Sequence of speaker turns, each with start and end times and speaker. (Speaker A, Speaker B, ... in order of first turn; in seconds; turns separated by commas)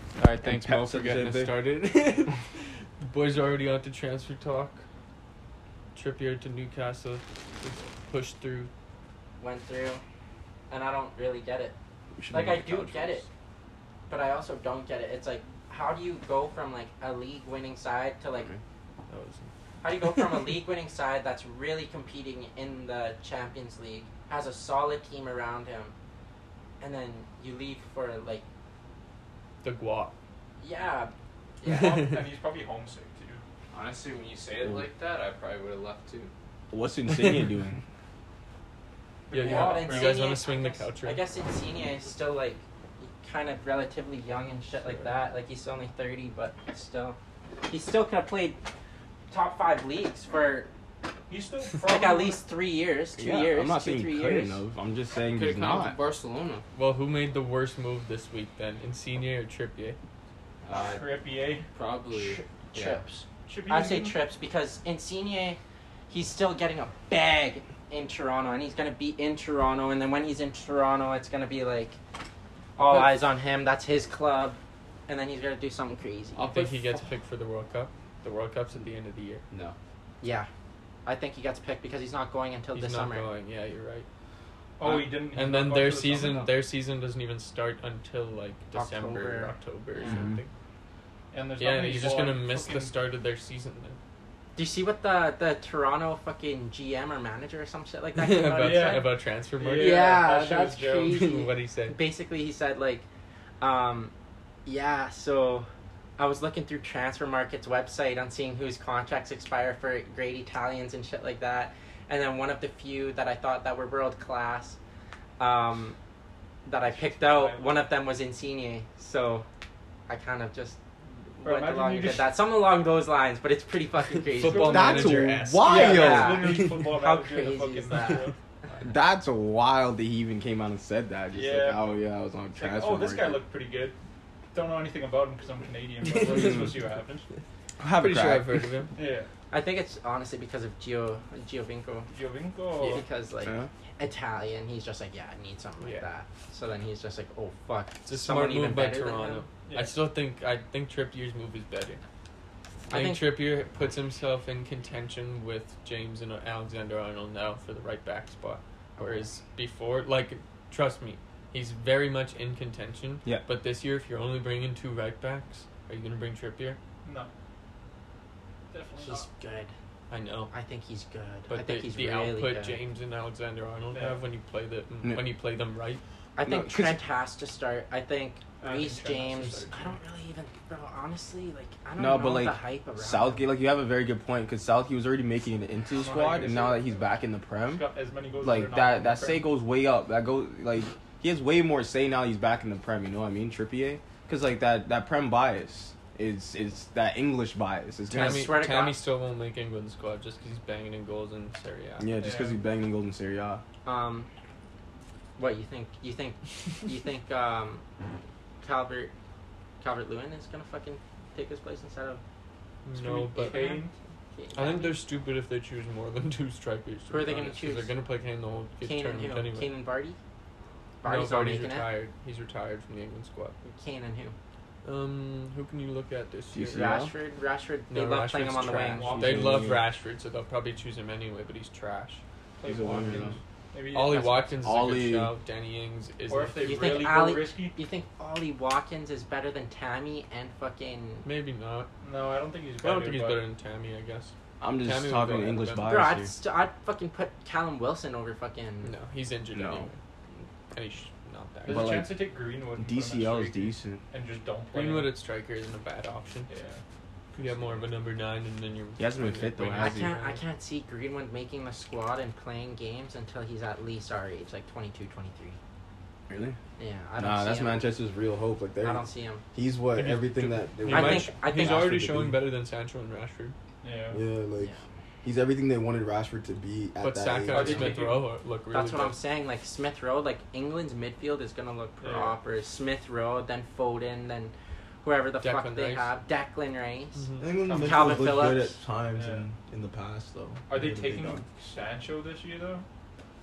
Speaker A: 0.2-4.8, Speaker B: 0.4-1.6, Speaker A: 5.9-8.7, Speaker C: 9.4-10.0, Speaker C: 10.7-11.7, Speaker B: 12.2-13.2, Speaker C: 12.3-13.2, Speaker C: 14.1-18.5, Speaker B: 18.3-18.6, Speaker A: 19.1-19.5, Speaker C: 19.8-25.9, Speaker A: 20.0-20.5, Speaker C: 26.8-28.4, Speaker A: 29.6-30.1, Speaker C: 30.6-32.0, Speaker D: 31.6-33.4, Speaker A: 31.7-32.2, Speaker E: 33.7-36.3, Speaker B: 34.6-34.9, Speaker B: 36.7-37.8, Speaker A: 37.1-37.5, Speaker D: 39.3-40.4, Speaker A: 39.3-41.2, Speaker C: 39.4-48.6, Speaker C: 49.3-50.7, Speaker D: 51.3-52.4, Speaker C: 51.8-54.6, Speaker B: 53.2-56.0, Speaker E: 55.2-56.6, Speaker A: 56.7-60.0, Speaker E: 60.6-61.1, Speaker D: 60.7-61.7, Speaker E: 61.7-63.0, Speaker C: 62.1-72.0, Speaker D: 63.5-64.2, Speaker C: 72.8-77.0, Speaker E: 72.8-73.1, Speaker A: 76.3-79.4, Speaker E: 79.5-79.8, Speaker C: 80.2-80.5, Speaker C: 81.0-83.3, Speaker A: 82.7-84.1, Speaker D: 84.8-86.6, Speaker A: 84.8-90.5, Speaker C: 88.7-90.3, Speaker B: 90.1-90.4, Speaker D: 91.3-93.0, Speaker A: 91.6-94.0, Speaker C: 94.5-99.1, Speaker A: 98.2-100.1, Speaker D: 98.6-101.3, Speaker C: 99.7-103.0, Speaker A: 101.0-102.0, Speaker C: 103.6-104.1, Speaker C: 104.7-114.8, Speaker C: 115.4-116.0, Speaker C: 116.7-119.5, Speaker D: 116.9-117.8, Speaker C: 120.1-120.8, Speaker D: 121.0-122.3, Speaker C: 121.4-128.3, Speaker A: 124.3-127.0, Speaker D: 124.3-128.9, Speaker B: 124.6-126.6, Speaker B: 128.8-133.4, Speaker D: 131.3-132.0, Speaker D: 132.5-133.9, Speaker D: 134.5-137.3, Speaker A: 136.2-136.7, Speaker B: 136.2-136.8, Speaker B: 137.8-138.7, Speaker A: 137.9-138.9, Speaker D: 138.9-139.3, Speaker C: 139.5-142.1, Speaker D: 142.1-143.0, Speaker A: 142.8-143.0, Speaker C: 142.8-149.4, Speaker B: 143.4-143.7, Speaker A: 145.8-146.1, Speaker A: 148.1-152.0, Speaker D: 149.7-149.9, Speaker C: 152.9-153.3, Speaker A: 152.9-166.8, Speaker C: 159.0-159.2, Speaker D: 167.0-167.3, Speaker D: 168.7-169.3, Speaker C: 169.0-169.7, Speaker A: 170.1-170.5, Speaker C: 170.5-172.8, Speaker A: 171.5-176.0, Speaker D: 173.9-174.2, Speaker C: 176.3-183.5, Speaker B: 176.4-177.0, Speaker D: 178.6-180.0, Speaker B: 182.0-187.8, Speaker D: 185.9-189.5, Speaker B: 188.4-198.5, Speaker C: 198.1-199.0, Speaker A: 198.1-202.1, Speaker B: 202.0-203.6, Speaker D: 202.2-202.6, Speaker C: 203.8-204.3, Speaker C: 205.4-207.8, Speaker C: 208.6-209.1, Speaker C: 209.8-212.2, Speaker A: 212.8-213.7, Speaker D: 212.9-213.9, Speaker C: 213.3-215.0, Speaker A: 214.5-219.7, Speaker C: 217.1-217.9, Speaker C: 218.8-220.2, Speaker C: 221.0-221.9, Speaker A: 221.0-223.6, Speaker C: 223.6-224.3, Speaker A: 224.8-226.8, Speaker B: 226.5-227.1, Speaker C: 226.7-229.2, Speaker A: 227.9-232.2, Speaker D: 228.6-229.8, Speaker B: 229.0-229.8, Speaker D: 232.6-234.5, Speaker B: 232.6-233.4, Speaker A: 233.9-236.7, Speaker B: 234.6-235.3, Speaker D: 236.3-237.8, Speaker C: 236.6-241.2, Speaker A: 241.2-241.9, Speaker D: 242.0-243.4, Speaker A: 242.8-246.1, Speaker B: 244.6-246.3, Speaker C: 245.8-248.9, Speaker A: 248.8-250.0, Speaker B: 249.5-249.9, Speaker A: 250.7-252.0, Speaker D: 251.6-255.1, Speaker B: 251.7-252.2, Speaker B: 252.8-254.0, Speaker A: 254.7-256.5, Speaker D: 256.5-256.8, Speaker D: 257.3-257.9, Speaker A: 257.4-260.4, Speaker B: 259.0-260.1, Speaker C: 259.8-265.6, Speaker B: 266.3-266.6, Speaker C: 266.8-267.9, Speaker B: 267.2-272.4, Speaker C: 268.8-269.4, Speaker A: 269.9-273.5, Speaker C: 270.9-271.9, Speaker D: 273.8-274.2, Speaker B: 274.1-278.0, Speaker C: 274.6-274.9, Speaker A: 277.0-279.2, Speaker D: 277.5-278.2, Speaker C: 278.7-288.8, Speaker D: 282.0-282.3, Speaker A: 285.4-286.1, Speaker A: 287.1-287.5, Speaker B: 287.4-291.4, Speaker D: 287.6-289.5, Speaker D: 290.7-292.9